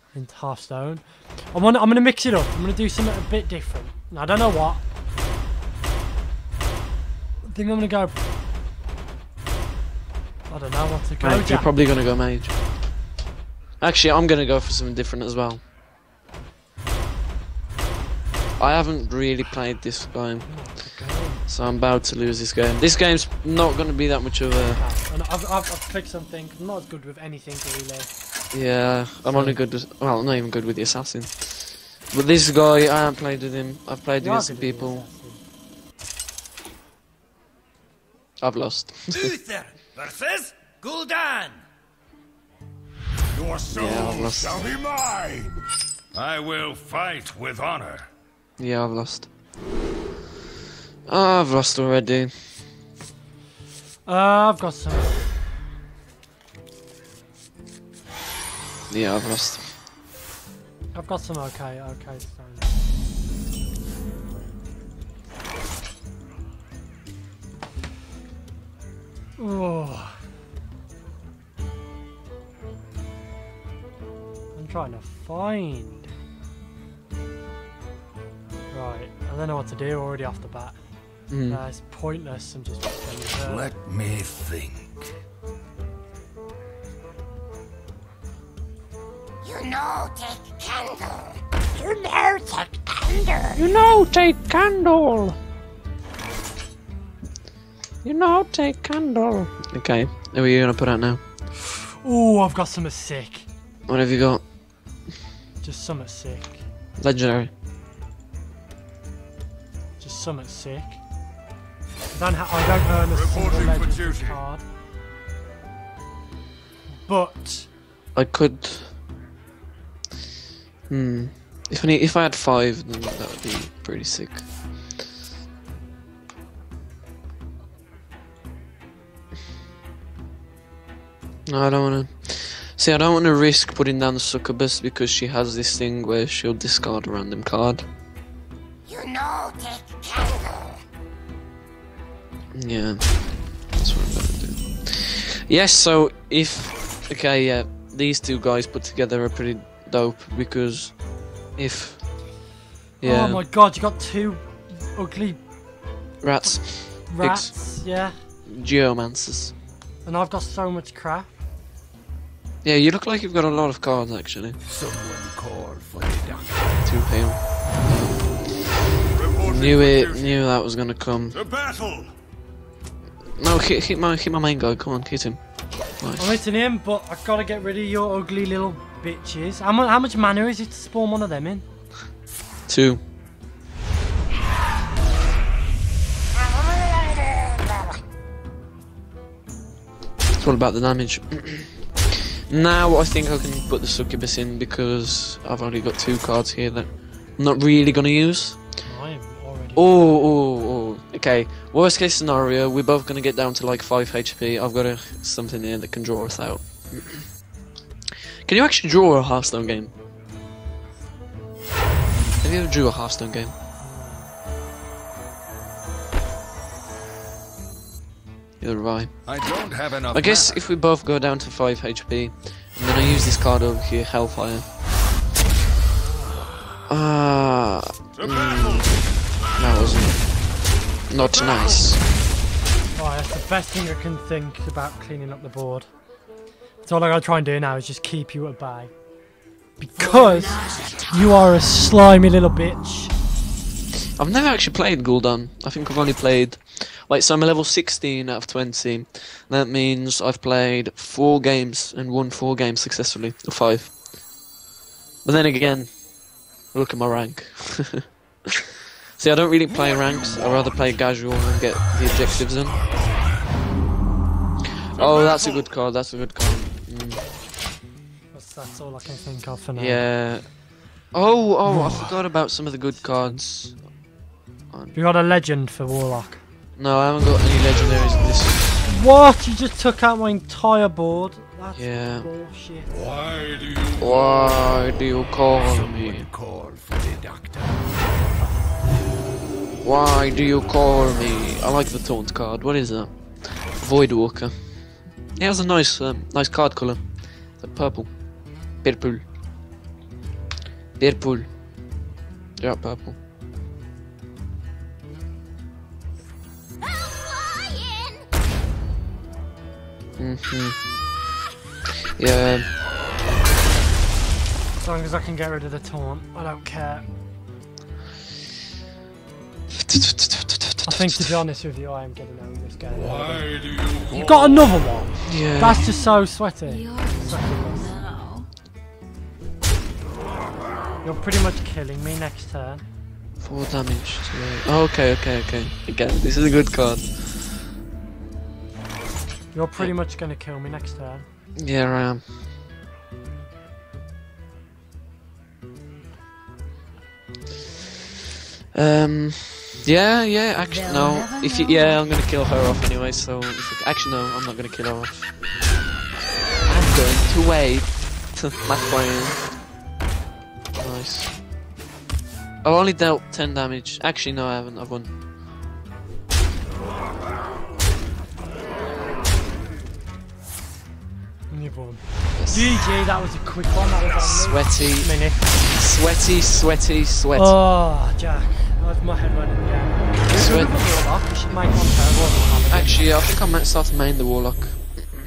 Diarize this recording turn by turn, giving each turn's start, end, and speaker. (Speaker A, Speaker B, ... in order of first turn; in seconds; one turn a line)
Speaker A: 0.1-4.8
Speaker A: 7.4-8.1
Speaker A: 10.5-11.7
Speaker B: 11.2-12.5
Speaker B: 13.8-15.6
Speaker B: 18.6-20.6
Speaker A: 20.4-21.4
Speaker B: 21.5-24.8
Speaker A: 24.8-28.1
Speaker B: 28.5-35.0
Speaker A: 29.2-29.6
Speaker A: 34.2-35.4
Speaker B: 38.4-39.3
Speaker C: 39.1-41.6
Speaker C: 43.3-45.6
Speaker B: 43.7-44.6
Speaker C: 46.1-48.1
Speaker B: 48.6-49.3
Speaker B: 51.1-52.3
Speaker A: 54.0-55.2
Speaker B: 58.9-59.6
Speaker A: 60.9-62.7
Speaker A: 69.4-70.2
Speaker A: 74.5-76.1
Speaker A: 78.7-80.8
Speaker B: 81.3-81.6
Speaker A: 81.4-83.7
Speaker C: 83.4-85.1
Speaker D: 89.4-91.4
Speaker A: 91.8-93.4
Speaker B: 93.5-95.3
Speaker B: 98.0-101.2
Speaker A: 101.6-103.5
Speaker B: 103.9-104.4
Speaker A: 105.6-106.6
Speaker B: 107.0-107.5
Speaker A: 110.0-111.0
Speaker A: 112.1-114.6
Speaker C: 113.1-114.4
Speaker A: 117.0-117.7
Speaker B: 118.1-118.9
Speaker B: 120.9-124.5
Speaker B: 131.4-137.8
Speaker D: 138.9-140.8
Speaker B: 142.5-143.2
Speaker B: 143.7-151.0
Speaker B: 151.6-152.0
Speaker B: 153.0-153.4
Speaker A: 153.0-155.4
Speaker B: 156.2-157.6
Speaker A: 156.4-158.2
Speaker B: 158.5-159.5
Speaker A: 160.0-161.3
Speaker B: 162.6-164.6
Speaker C: 164.7-166.8
Speaker B: 166.8-171.4
Speaker C: 169.1-170.4
Speaker C: 171.3-172.1
Speaker B: 173.4-175.4
Speaker B: 176.0-176.3
Speaker A: 176.2-181.6
Speaker B: 182.7-183.0
Speaker B: 190.4-198.6
Speaker A: 198.8-200.0
Speaker B: 199.8-207.3
Speaker B: 208.4-209.9
Speaker B: 212.4-213.5
Speaker A: 213.8-214.3
Speaker B: 218.6-219.3
Speaker C: 219.2-220.6
Speaker B: 220.1-224.7
Speaker B: 226.9-228.9
Speaker C: 228.2-229.0
Speaker B: 229.6-230.2
Speaker B: 231.1-232.0
Speaker A: 232.9-235.9
Speaker A: 236.8-238.9
Speaker A: 239.8-243.1
Speaker B: 244.2-254.0
Speaker B: 255.2-255.9
Speaker B: 256.7-258.0
Speaker B: 259.2-262.8
Speaker C: 259.8-260.9
Speaker B: 264.9-267.2
Speaker C: 264.9-265.7
Speaker A: 268.3-270.1
Speaker B: 269.8-270.5
Speaker B: 271.1-273.8
Speaker A: 271.6-272.1
Speaker A: 274.9-276.4
Speaker B: 276.8-278.8
Speaker A: 278.8-282.9
Speaker B: 281.7-282.3
Speaker C: 282.9-284.9
Speaker B: 284.0-286.3
Speaker C: 285.5-288.1
Speaker B: 289.8-294.5
Speaker B: 295.3-298.1
Speaker B: 298.8-299.2
Speaker B: 301.0-301.4
Speaker B: 302.6-303.1
Speaker B: 310.2-310.8
Speaker B: 312.1-312.6
Speaker A: 314.8-317.0
Speaker B: 319.7-321.3
Speaker A: 320.9-323.5
Speaker C: 322.9-324.7
Speaker A: 324.1-328.1
Speaker B: 325.2-325.9
Speaker D: 326.6-328.5
Speaker A: 331.0-332.8
Speaker B: 333.4-337.6
Speaker A: 339.5-341.2
Speaker B: 341.6-342.2
Speaker B: 348.7-355.3
Speaker D: 350.6-352.0
Speaker B: 356.6-359.4
Speaker B: 360.8-361.3
Speaker B: 362.6-365.1
Speaker A: 371.5-375.4
Speaker B: 372.3-372.8
Speaker B: 374.1-377.5
Speaker A: 377.3-383.1
Speaker B: 380.3-380.9
Speaker B: 382.7-384.9